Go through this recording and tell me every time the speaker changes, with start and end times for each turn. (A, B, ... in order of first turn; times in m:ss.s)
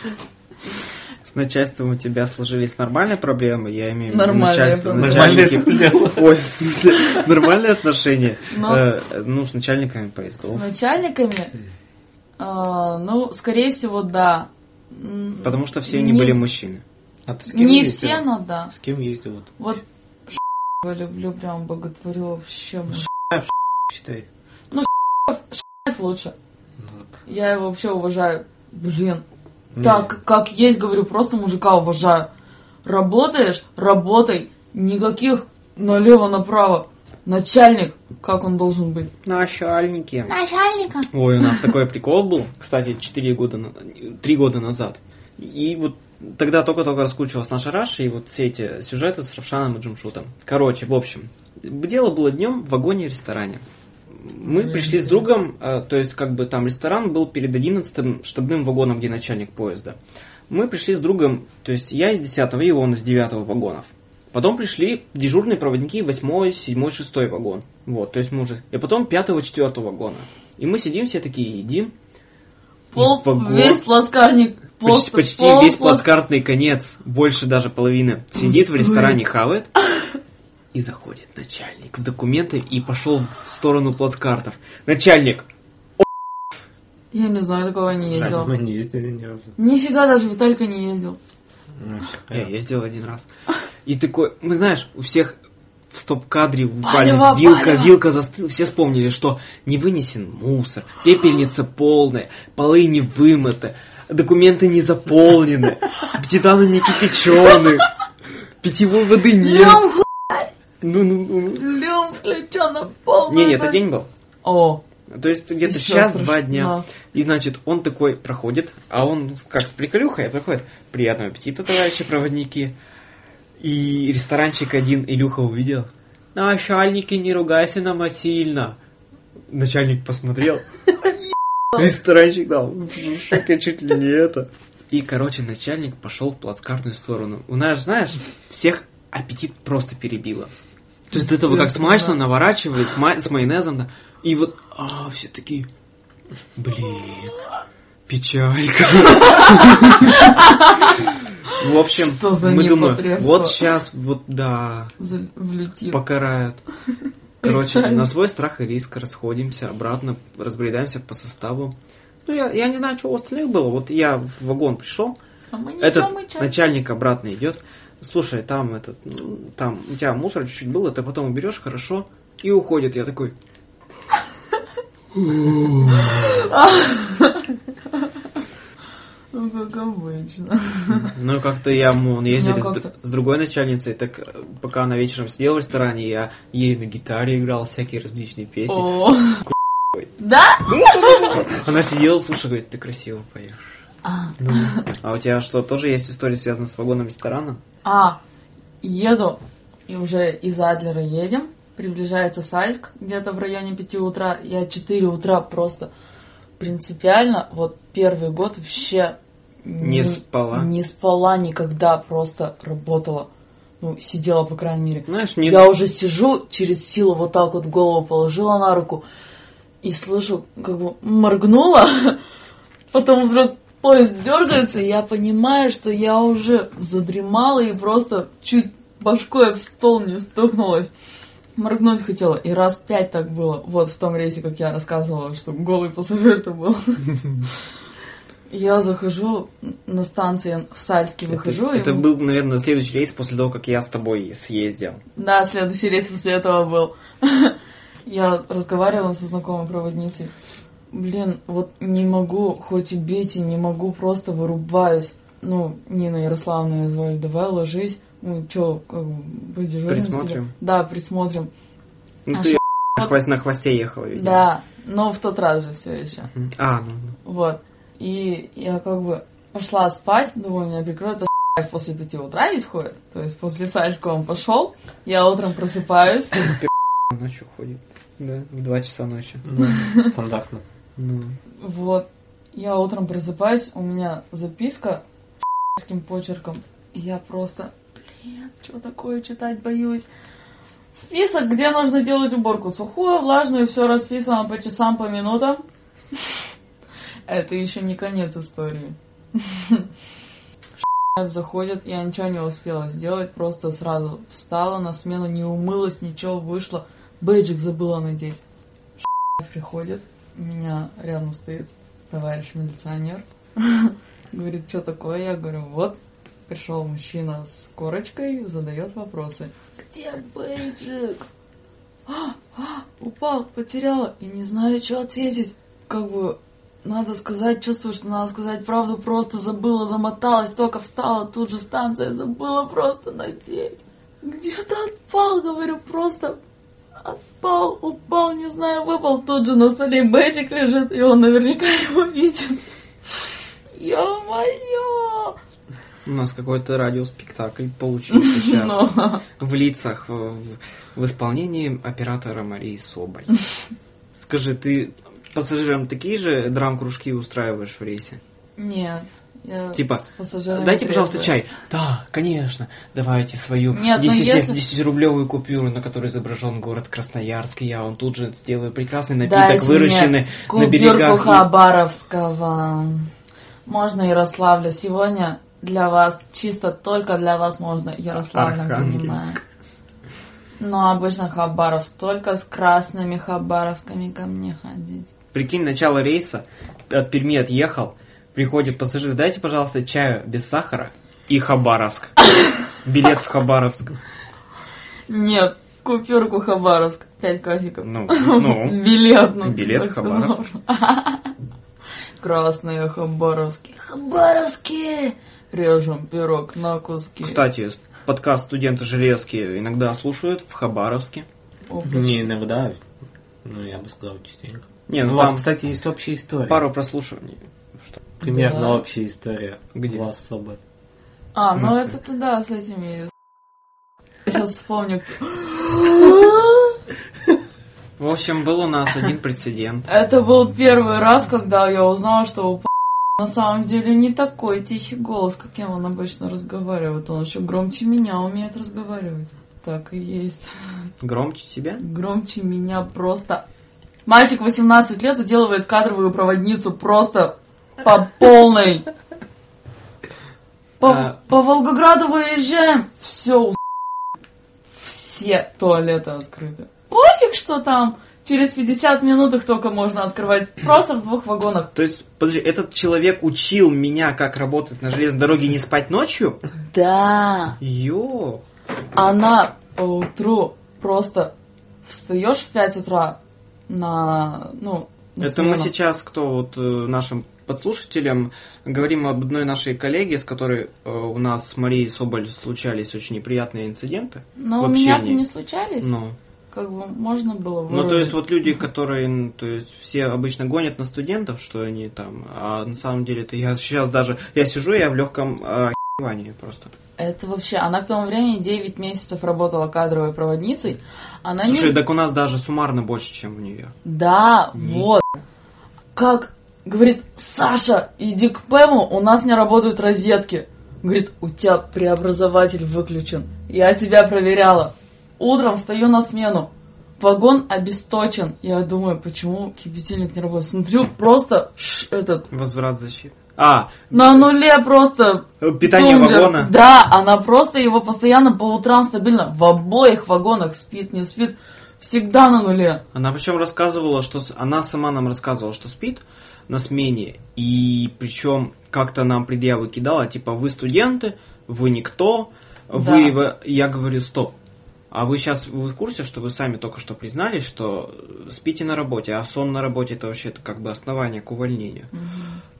0:01.2-0:10.7 A
0:04.1-0:05.4 B
0:05.0-0:06.4 C
0:08.5-0:08.8 B
0:10.4-0:11.5 B
0:12.4-0:16.4 B
0:15.4-0:16.8 A
0:17.2-0:19.5 C
0:17.5-0:18.7 B
0:19.6-0:23.1 B
0:22.9-0:24.3 C
0:24.7-0:26.3 B
0:26.8-0:27.1 C
0:27.3-0:29.2 B
0:29.7-0:30.1 C
0:29.8-0:32.3 B
0:32.8-0:39.1 B
0:39.2-0:40.3 A
0:40.3-0:41.6 B
0:41.1-0:53.6 A
0:54.1-1:00.0 A
0:54.4-0:55.3 B
1:00.5-1:11.9 A
1:12.9-1:16.1 B
1:12.9-1:13.8 A
1:14.8-1:19.7 A
1:18.4-1:19.2 B
1:20.7-1:25.4 A
1:27.1-1:28.5 B
1:28.1-1:29.5 C
1:28.1-1:28.4 A
1:29.6-1:31.2 B
1:31.8-1:32.5 C
1:32.3-1:33.2 A
1:33.8-1:35.4 A
1:35.9-1:47.9 A
1:36.8-1:38.0 B
1:48.6-1:49.9 A
1:49.4-1:50.5 B
1:50.8-1:51.7 A
1:51.5-1:53.8 B
1:53.3-1:54.1 A
1:54.4-1:54.8 B
1:55.1-2:02.7 A
1:55.6-1:56.9 B
2:03.6-2:08.8 A
2:09.5-2:11.1 A
2:11.7-2:20.5 A
2:21.1-2:22.2 B
2:21.1-2:25.7 A
2:26.6-2:27.4 A
2:28.1-2:30.2 A
2:29.7-2:33.6 B
2:31.5-2:35.0 A
2:35.0-2:36.0 B
2:35.9-2:36.6 A
2:37.4-2:38.1 B
2:37.4-2:41.7 A
2:42.2-2:45.2 A
2:45.5-2:46.5 B
2:45.8-2:53.3 A
2:55.1-2:56.5 A
2:55.9-2:58.1 B
2:59.3-3:01.1 B
3:00.9-3:08.9 A
3:02.3-3:02.9 B
3:08.7-3:09.4 B
3:09.4-3:10.1 A
3:10.2-3:11.4 B
3:10.7-3:13.6 A
3:14.0-3:14.8 B
3:14.4-3:17.6 A
3:17.8-3:18.2 B
3:18.8-3:25.9 B
3:26.6-3:33.3 B
3:29.8-3:30.7 A
3:33.8-3:39.0 B
3:35.1-3:35.7 A
3:39.8-3:42.2 B
3:42.9-3:50.9 B
3:51.6-3:57.0 B
3:58.5-4:02.0 B
4:01.3-4:05.0 A
4:05.1-4:10.3 B
4:10.9-4:21.5 B
4:19.9-4:20.5 A
4:22.2-4:24.5 A
4:22.3-4:23.1 B
4:24.1-4:26.3 B
4:26.3-4:27.2 A
4:27.2-4:36.4 B
4:36.4-4:39.4 A
4:39.4-4:40.6 C
4:39.6-4:40.1 B
4:41.0-4:41.4 A
4:41.6-4:45.0 B
4:45.7-4:50.1 B
4:50.9-4:55.6 B
4:57.3-4:59.9 B
5:01.1-5:08.4 B
5:09.0-5:21.3 B
5:22.1-5:36.4 B
5:37.0-5:42.7 B
5:43.7-5:45.4 B
5:46.0-5:53.3 A
5:48.1-5:49.2 B
5:54.2-5:58.2 A
5:58.6-6:01.3 B
5:59.7-6:11.5 A
6:03.7-6:04.6 B
6:09.2-6:13.1 B
6:13.6-6:19.4 B
6:18.2-6:19.2 A
6:20.6-6:25.1 B
6:25.3-6:32.2 A
6:32.8-6:34.0 A
6:35.1-6:41.3 B
6:37.8-6:38.8 A
6:39.4-6:40.4 A
6:42.2-6:47.4 B
6:47.2-6:51.2 A
6:51.7-6:52.3 B
6:51.8-6:52.8 C
6:53.4-6:56.6 C
6:54.9-6:55.4 A
6:56.5-6:57.4 A
6:58.2-7:00.6 C
6:58.2-6:58.8 B
6:59.7-7:00.0 A
7:01.3-7:03.1 B
7:01.4-7:02.0 A
7:04.2-7:06.8 B
7:08.0-7:09.8 A
7:09.9-7:20.5 B
7:21.0-7:21.8 A
7:21.8-7:23.4 B
7:24.0-7:28.9 B
7:30.8-7:33.6 B
7:30.8-7:31.1 A
7:34.7-7:41.7 B
7:41.7-7:46.4 A
7:46.7-7:47.6 B
7:47.6-7:48.4 A
7:48.9-7:51.3 B
7:51.8-7:55.7 B
7:55.2-8:05.2 A
8:04.4-8:05.9 B
8:05.8-8:06.2 A
8:06.5-8:08.2 B
8:07.7-8:16.7 A
8:17.0-8:21.8 B
8:21.4-8:23.7 A
8:23.8-8:25.2 B
8:24.5-8:24.9 A
8:26.0-8:42.3 B
8:42.3-8:44.3 A
8:43.9-8:52.8 B
8:45.4-8:46.5 A
8:52.9-9:04.3 A
9:02.7-9:03.2 B
9:04.9-9:11.9 A
9:11.9-9:12.4 B